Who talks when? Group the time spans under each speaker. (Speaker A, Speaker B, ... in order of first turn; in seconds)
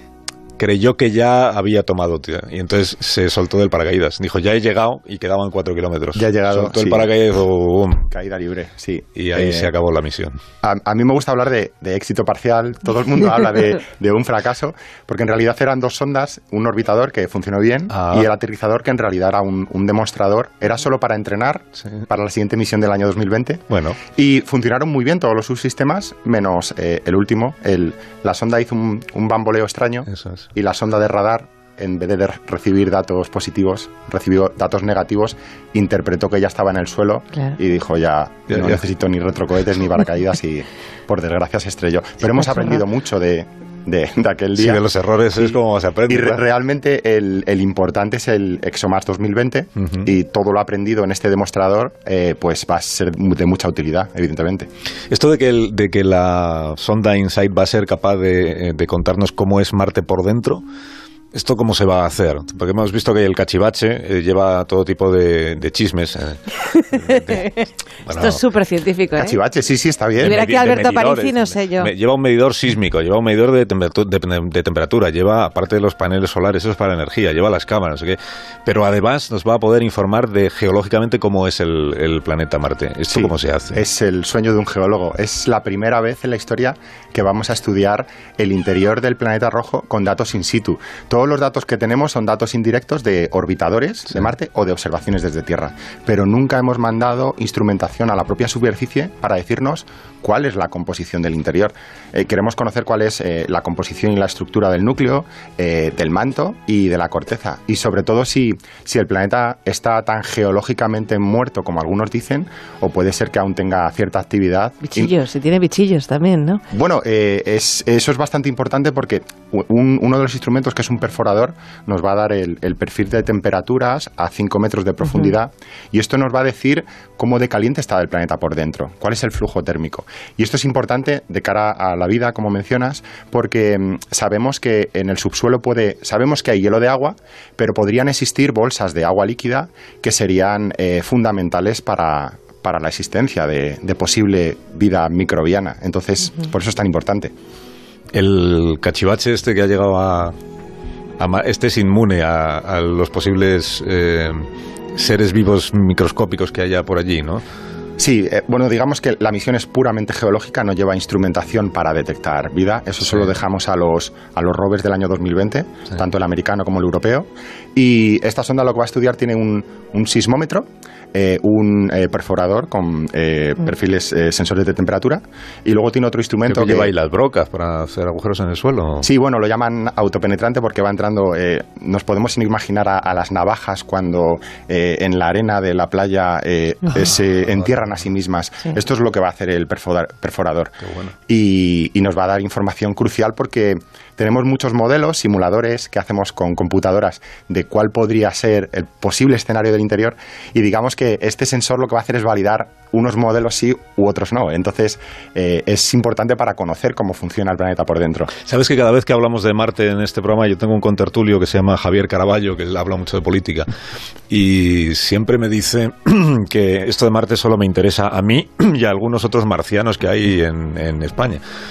Speaker A: 0.6-8.1, 9.1-10.4, 17.9-18.3, 23.7-24.1, 30.1-30.5, 38.5-38.8, 44.5-46.4, 49.8-50.1, 55.1-60.6, 61.3-68.5, 70.2-83.8, 148.1-150.3, 151.2-157.4, 176.4-179.1, 187.7-188.0, 190.8-191.2, 208.3-213.7, 214.3-221.4
Speaker B: 6.1-7.1, 8.1-9.7, 10.6-44.8, 45.4-54.7, 69.1-70.4, 83.1-115.1, 116.7-147.3, 158.0-176.9, 179.0-208.3
Speaker C: 68.1-69.4, 70.3-71.9, 114.8-116.6